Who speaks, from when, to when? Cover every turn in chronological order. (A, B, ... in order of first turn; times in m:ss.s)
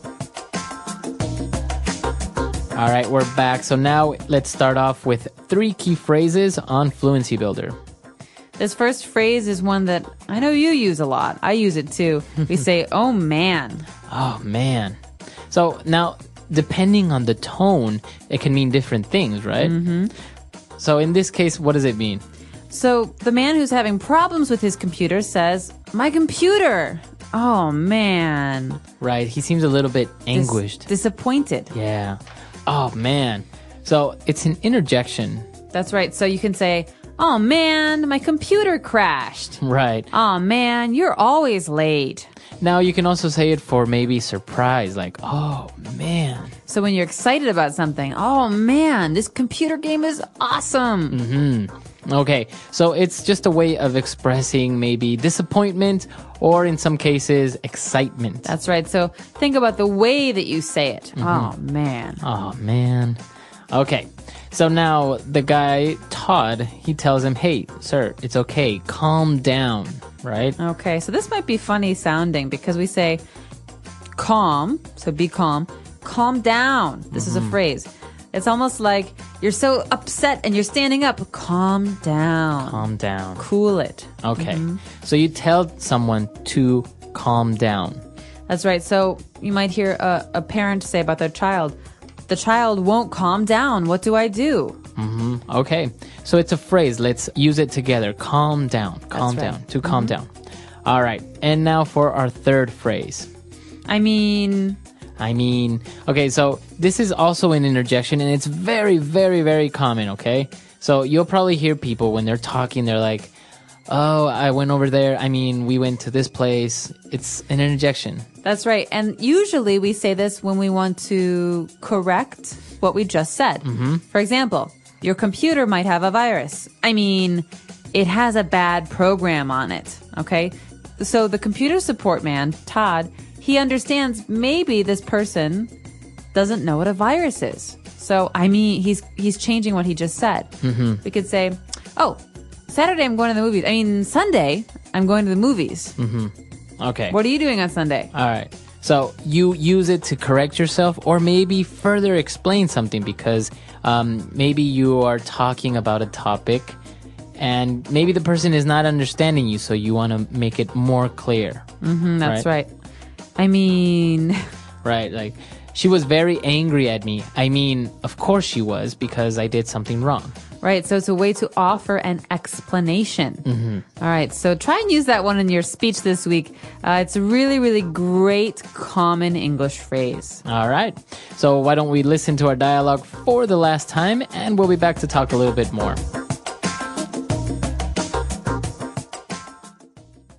0:02.7-0:07.8 A
0:08.6-0:13.9 B
0:14.1-0:19.7 A
0:19.6-0:20.1 B
0:20.8-0:22.2 A
0:22.7-0:28.8 B
0:29.0-0:30.9 A
0:30.3-0:31.7 B
0:31.7-0:35.5 A
0:35.7-0:39.6 B
0:39.6-0:40.1 A
0:40.1-0:42.3 B
0:42.6-0:46.6 A
0:46.7-0:51.2 B
0:51.1-0:58.5 A
0:58.4-1:02.2 B
1:01.2-1:01.5 A
1:02.2-1:10.6 A
1:10.6-1:13.2 B
1:14.1-1:22.8 B
1:17.1-1:17.6 A
1:22.6-1:23.4 A
1:23.4-1:24.8 B
1:24.2-1:28.0 A
1:28.5-1:31.8 B
1:32.3-1:34.8 B
1:35.0-1:40.3 A
1:39.1-1:40.1 B
1:40.8-1:43.3 A
1:43.9-1:44.8 B
1:45.2-1:53.3 A
1:53.9-1:58.3 A
1:58.4-2:15.7 B
2:03.6-2:04.0 A
2:16.3-2:26.0 B
2:20.6-2:21.0 A
2:26.0-2:27.2 A
2:27.1-2:28.1 B
2:28.1-2:36.8 A
2:37.4-2:41.7 A
2:41.8-2:42.7 B
2:43.4-2:44.4 B
2:44.8-2:50.3 A
2:50.6-2:53.4 B
2:53.4-2:53.8 A
2:54.0-3:00.4 B
3:00.4-3:06.0 A